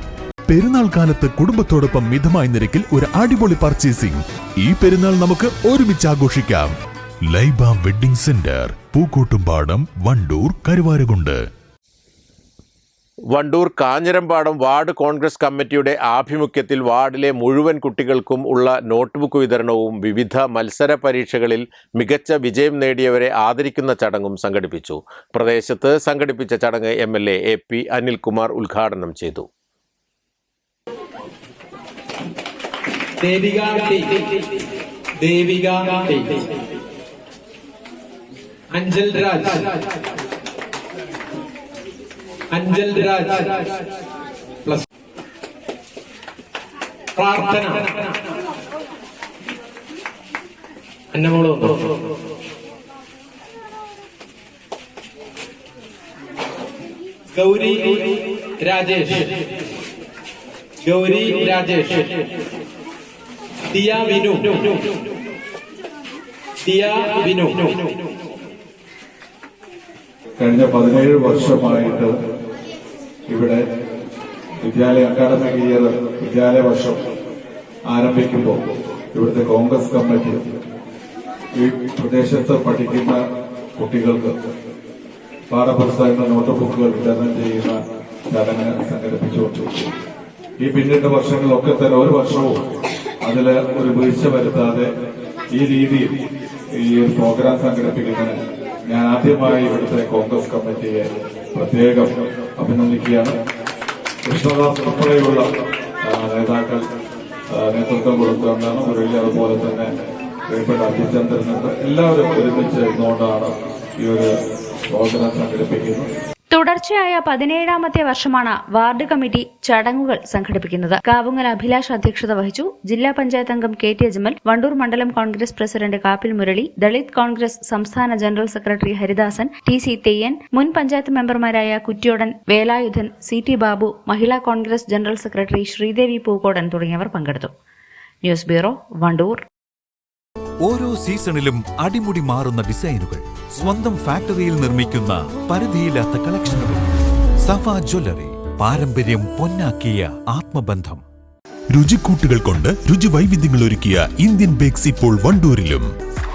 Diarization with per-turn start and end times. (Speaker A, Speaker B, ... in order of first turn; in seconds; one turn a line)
Speaker A: 0.5-6.7
Speaker A: 7.3-11.4
Speaker B: 13.3-29.4
Speaker C: 33.2-34.5
Speaker C: 35.2-36.5
Speaker C: 38.7-39.8
Speaker C: 42.5-43.7
Speaker C: 47.2-48.1
Speaker C: 51.1-51.9
Speaker C: 57.3-59.5
Speaker C: 60.8-62.2
Speaker C: 63.7-64.8
Speaker C: 66.6-67.8
Speaker D: 70.4-72.1
Speaker D: 73.3-73.6
Speaker D: 74.6-77.0
Speaker D: 77.9-78.6
Speaker D: 79.1-80.4
Speaker D: 81.5-83.2
Speaker D: 83.8-84.3
Speaker D: 85.5-87.8
Speaker D: 88.3-89.9
Speaker D: 90.6-92.5
Speaker D: 93.2-94.9
Speaker D: 95.5-96.1
Speaker D: 96.8-98.3
Speaker D: 98.9-103.3
Speaker D: 104.2-105.4
Speaker D: 106.0-106.8
Speaker D: 107.5-109.9
Speaker D: 110.5-114.3
Speaker D: 114.9-116.1
Speaker E: 116.5-137.5
Speaker E: 138.2-139.4
Speaker F: 140.7-146.9
Speaker F: 147.5-151.0
Speaker A: 151.7-155.8